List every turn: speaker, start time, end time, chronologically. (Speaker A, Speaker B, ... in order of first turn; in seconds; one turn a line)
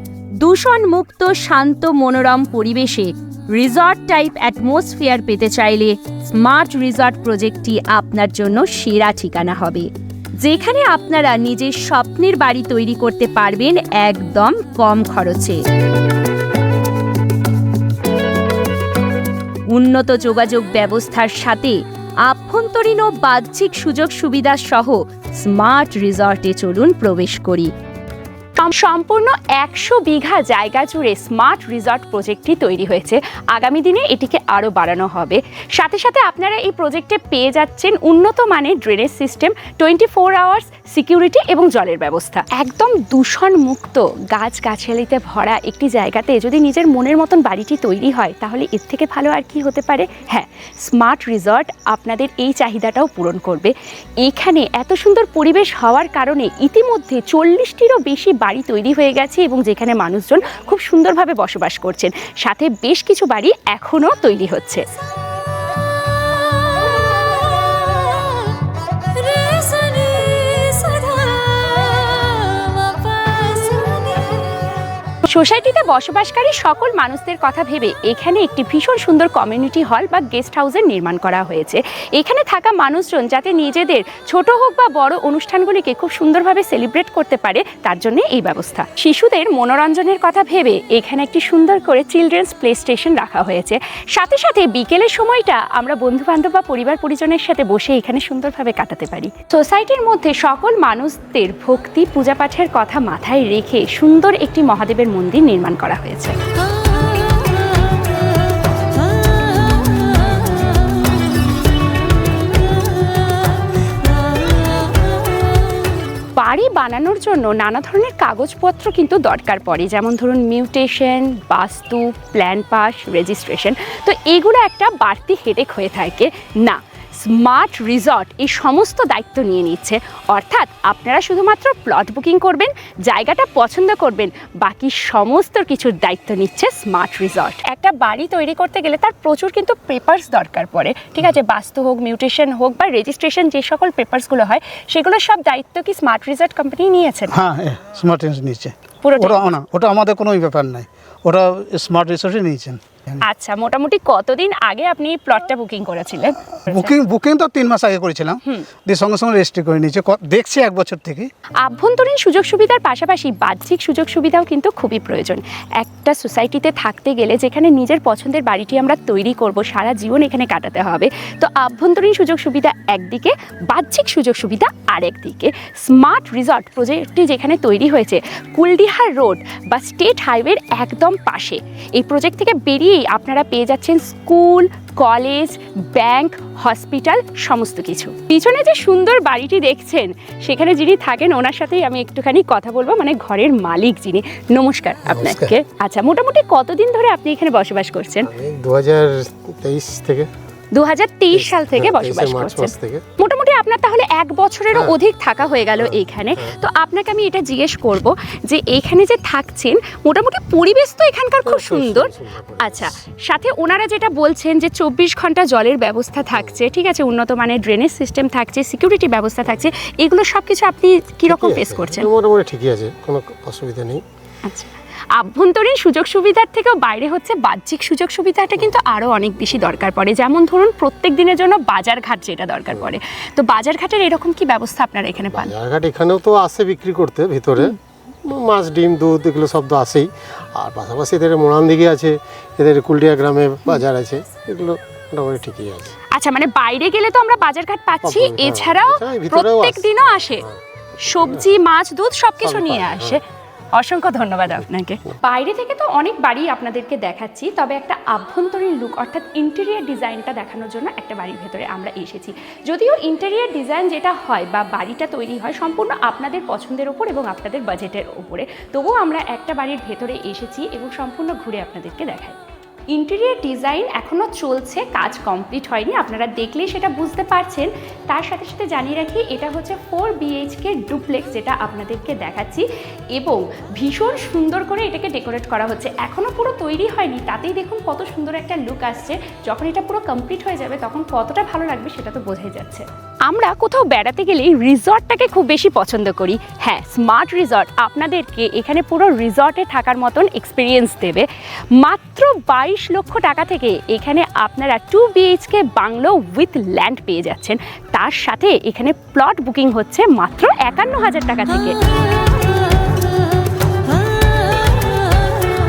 Speaker A: 0.4-15.6
Speaker A: 19.7-27.7
Speaker A: 28.6-64.8
Speaker A: 69.5-71.4
Speaker A: 73.7-74.0
Speaker A: 75.2-106.3
Speaker A: 116.4-147.3
Speaker B: 147.3-152.8
Speaker A: 149.0-149.5
Speaker A: 153.2-156.9
Speaker B: 156.7-161.3
Speaker A: 161.6-198.3
Speaker C: 195.1-195.6
Speaker C: 198.2-200.3
Speaker A: 200.7-222.1
Speaker C: 201.3-203.0
Speaker C: 205.7-206.6
Speaker C: 211.4-212.9
Speaker C: 216.3-216.6
Speaker C: 221.2-224.0
Speaker A: 224.4-235.5
Speaker C: 235.2-245.9
Speaker A: 246.1-250.4
Speaker C: 248.0-250.6
Speaker A: 251.0-253.2
Speaker C: 251.1-251.5
Speaker C: 252.4-253.2
Speaker A: 253.8-272.4
Speaker A: 272.9-301.3
Speaker A: 301.8-311.8